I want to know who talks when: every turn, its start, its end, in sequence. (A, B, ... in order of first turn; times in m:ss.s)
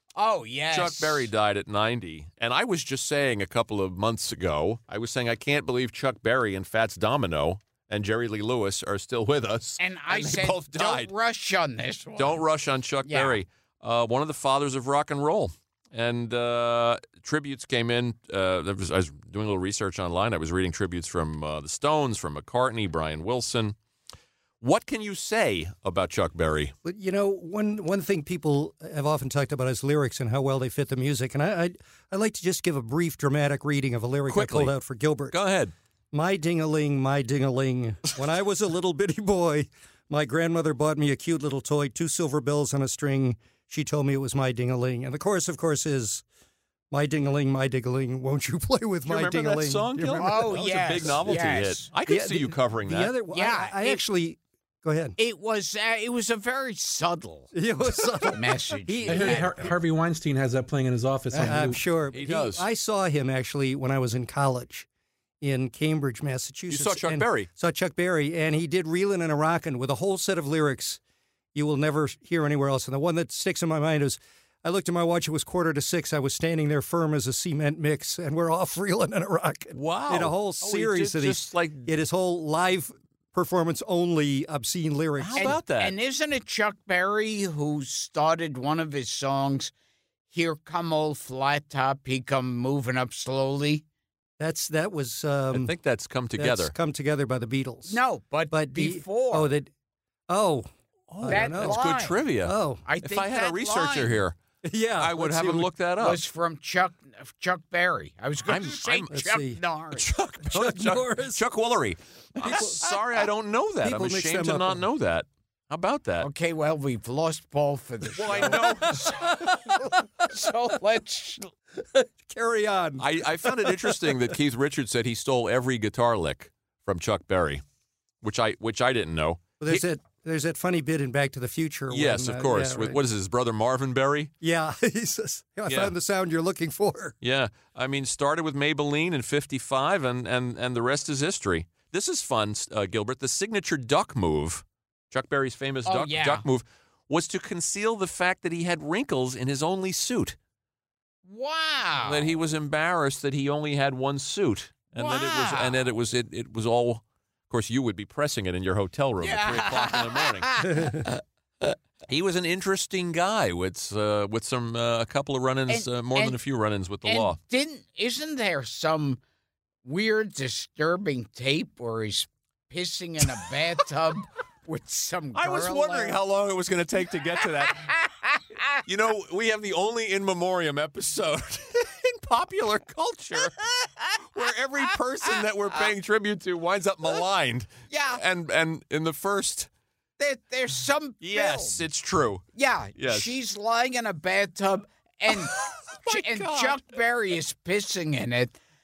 0:00.2-0:01.3 A
0:00.7-0:11.1 B
0:09.8-0:12.4 A
0:12.2-0:23.8 B
0:13.0-0:13.4 A
0:24.6-0:26.7 B
0:26.8-0:35.4 C
0:34.3-0:34.7 B
0:35.3-0:35.7 B
0:36.1-0:46.2 C
0:46.9-0:50.6 C
0:49.1-0:53.1 B
0:50.2-0:51.9 A
0:52.1-0:55.2 C
0:53.3-0:54.0 A
0:55.2-0:57.5 A
0:57.5-0:59.7 C
0:58.2-0:59.6 A
0:59.1-1:01.8 D
1:01.3-1:04.9 C
1:02.1-1:02.7 B
1:05.4-1:11.0 C
1:06.7-1:07.5 B
1:11.5-1:25.6 C
1:19.7-1:22.0 B
1:25.2-1:25.9 B
1:25.4-1:29.7 A
1:30.3-1:33.8 A
1:34.4-1:35.7 C
1:35.5-1:36.7 B
1:36.4-1:38.0 C
1:37.9-1:39.5 A
1:38.5-1:39.7 C
1:40.3-1:41.8 C
1:41.1-1:44.4 B
1:41.3-1:42.2 A
1:42.4-1:42.8 C
1:42.8-1:44.2 A
1:44.6-1:45.7 C
1:45.0-1:46.2 B
1:46.0-1:50.1 A
1:48.5-1:49.1 B
1:49.1-1:49.6 C
1:50.0-1:56.3 B
1:50.5-1:51.4 C
1:52.4-1:52.9 C
1:53.8-1:54.8 C
1:56.2-2:01.5 A
1:58.1-1:59.1 B
1:58.5-1:59.9 C
2:01.8-2:04.2 C
2:03.0-2:07.6 B
2:08.2-2:09.8 B
2:09.6-2:13.0 C
2:11.9-2:14.3 B
2:14.4-2:17.2 C
2:15.7-2:15.9 B
2:17.2-2:30.4 B
2:25.8-2:26.5 A
2:31.2-2:32.3 A
2:32.0-2:40.6 B
2:35.0-2:35.9 A
2:39.2-2:41.1 A
2:42.1-2:47.4 B
2:45.7-2:46.4 A
2:47.0-2:49.2 A
2:49.8-2:56.2 A
2:55.3-2:58.0 B
2:58.8-3:09.7 B
3:07.9-3:08.2 A
3:10.2-3:11.8 A
3:11.2-3:12.4 B
3:12.6-3:18.6 A
3:13.0-3:13.4 B
3:15.3-3:16.8 B